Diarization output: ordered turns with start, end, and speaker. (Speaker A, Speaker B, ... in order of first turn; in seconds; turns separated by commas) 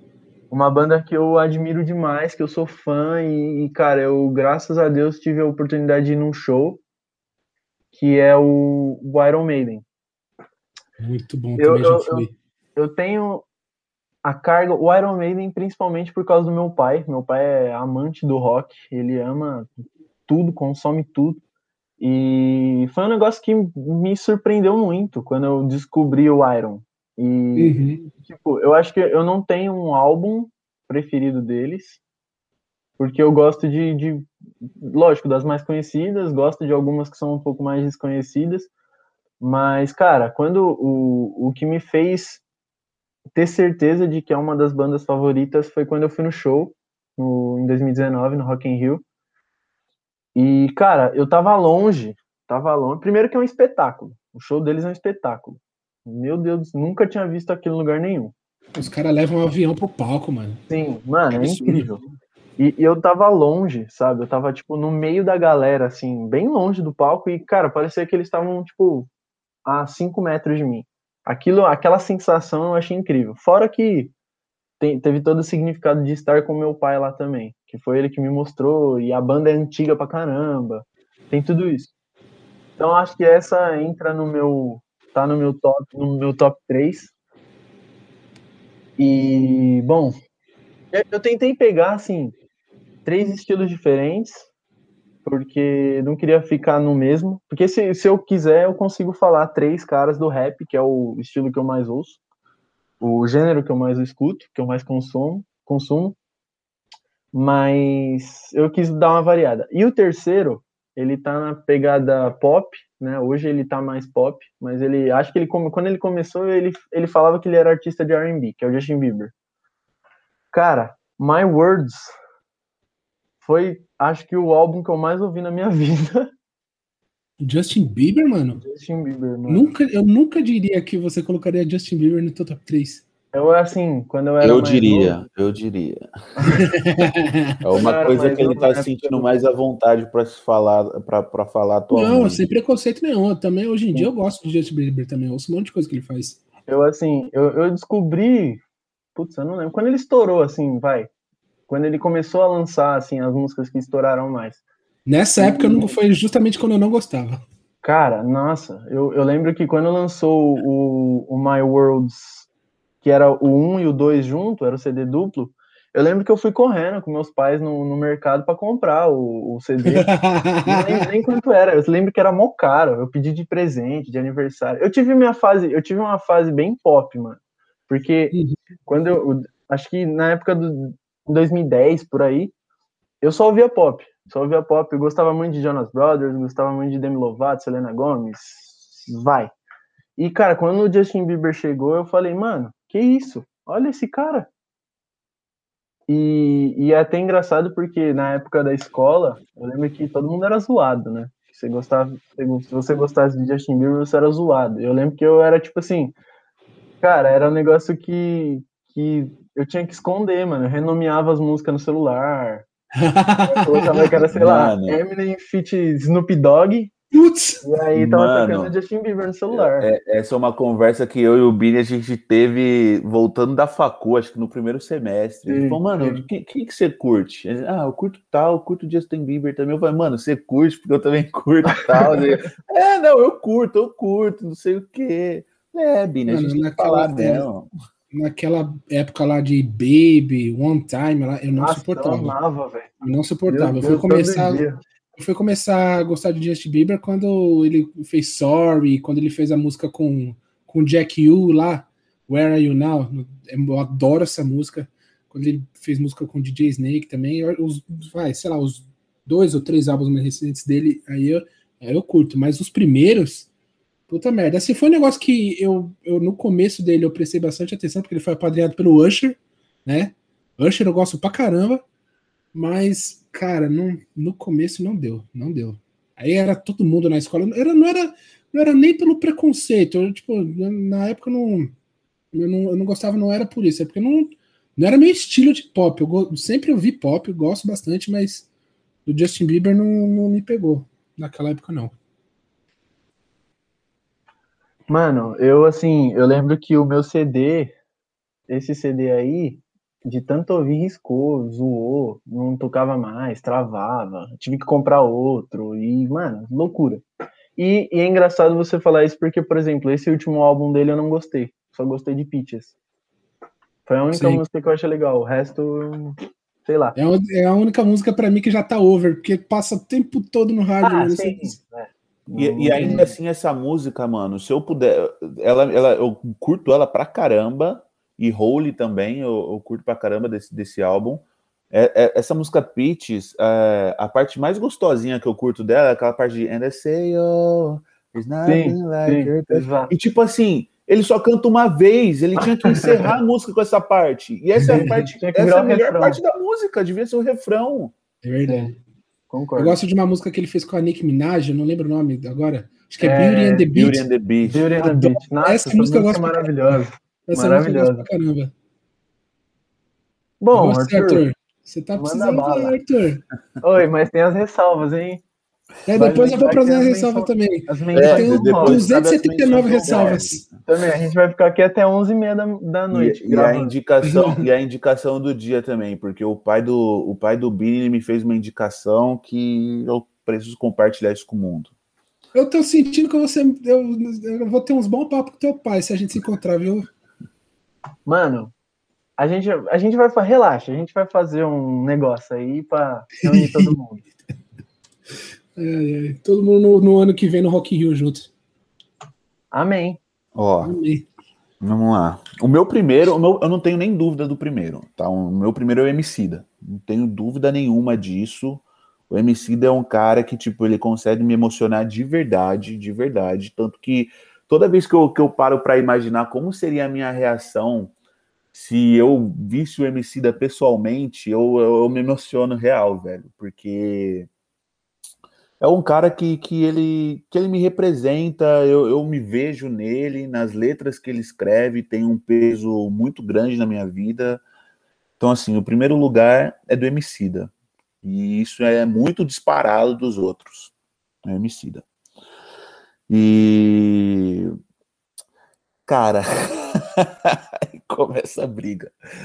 Speaker A: 0.5-6.8, Speaker A: 7.9-9.8, Speaker B: 11.0-12.3, Speaker A: 11.6-13.5, Speaker A: 14.2-19.7, Speaker A: 20.3-21.4, Speaker A: 22.0-32.0, Speaker B: 27.6-28.1, Speaker A: 33.0-34.3, Speaker A: 34.8-38.7, Speaker A: 39.4-42.4, Speaker A: 43.4-49.0, Speaker A: 50.4-58.3, Speaker B: 58.8-60.6, Speaker A: 60.7-62.0, Speaker B: 61.4-61.9, Speaker A: 62.6-69.1, Speaker A: 69.7-74.1, Speaker A: 74.8-81.9, Speaker A: 82.8-87.1, Speaker A: 89.0-90.2, Speaker A: 90.9-92.3, Speaker A: 93.0-94.5, Speaker A: 95.2-102.2, Speaker A: 103.0-106.2, Speaker A: 107.3-119.3, Speaker A: 120.5-122.1, Speaker A: 123.4-126.3, Speaker B: 127.4-128.6, Speaker A: 128.6-129.7, Speaker B: 129.5-133.0, Speaker A: 133.3-135.2, Speaker C: 134.4-136.0, Speaker A: 136.4-136.6, Speaker B: 136.4-137.6, Speaker C: 137.6-142.5, Speaker A: 137.8-139.3, Speaker B: 141.9-146.4, Speaker A: 146.7-148.6, Speaker A: 149.2-151.1, Speaker A: 151.7-154.6, Speaker B: 155.1-157.4, Speaker A: 155.4-155.9, Speaker A: 157.8-162.5, Speaker A: 163.0-170.1, Speaker B: 170.0-171.1, Speaker A: 170.6-178.3, Speaker A: 178.9-182.5, Speaker A: 183.2-189.5, Speaker A: 190.2-194.5, Speaker A: 196.1-206.2, Speaker A: 207.0-212.7, Speaker B: 213.0-214.2, Speaker A: 213.5-216.9, Speaker C: 214.3-215.0, Speaker B: 217.1-217.6, Speaker A: 217.6-219.9, Speaker C: 218.0-218.7, Speaker C: 219.5-237.7, Speaker A: 225.5-226.2, Speaker A: 231.8-232.5, Speaker B: 236.3-237.5, Speaker B: 238.1-242.3, Speaker A: 241.6-242.9, Speaker B: 243.0-244.6, Speaker A: 243.5-244.8, Speaker B: 245.2-263.5, Speaker B: 264.1-271.8, Speaker B: 272.5-281.7, Speaker B: 282.3-288.5, Speaker B: 289.1-291.9, Speaker A: 294.9-297.7, Speaker A: 298.5-307.0, Speaker A: 307.6-312.7, Speaker A: 313.9-317.0, Speaker B: 314.1-314.4, Speaker B: 317.0-321.6, Speaker A: 320.8-323.1, Speaker C: 322.4-347.9, Speaker B: 322.8-323.1, Speaker A: 338.5-339.9, Speaker A: 342.8-343.1, Speaker B: 344.6-345.1, Speaker A: 345.1-346.2, Speaker B: 348.2-348.8, Speaker A: 348.4-348.7, Speaker A: 349.3-349.8, Speaker B: 349.6-354.1, Speaker A: 353.0-353.7, Speaker C: 353.7-354.7, Speaker A: 354.4-358.1, Speaker B: 354.8-358.5, Speaker A: 360.4-361.2, Speaker B: 360.5-363.2, Speaker A: 362.0-362.8, Speaker A: 363.6-365.2, Speaker B: 365.9-370.4, Speaker A: 365.9-368.9, Speaker C: 367.9-370.5, Speaker A: 369.8-373.7, Speaker C: 372.9-381.7, Speaker B: 374.0-374.5, Speaker B: 382.3-386.9, Speaker A: 388.1-388.5, Speaker A: 389.2-394.0, Speaker B: 393.2-393.7, Speaker B: 395.6-398.3, Speaker A: 399.5-400.0, Speaker C: 400.4-400.7, Speaker B: 400.6-401.1, Speaker C: 401.6-417.9, Speaker C: 418.5-424.3, Speaker C: 425.6-434.4, Speaker C: 435.2-437.5, Speaker C: 438.0-440.7, Speaker C: 441.2-441.9, Speaker C: 443.1-444.5, Speaker C: 445.9-448.9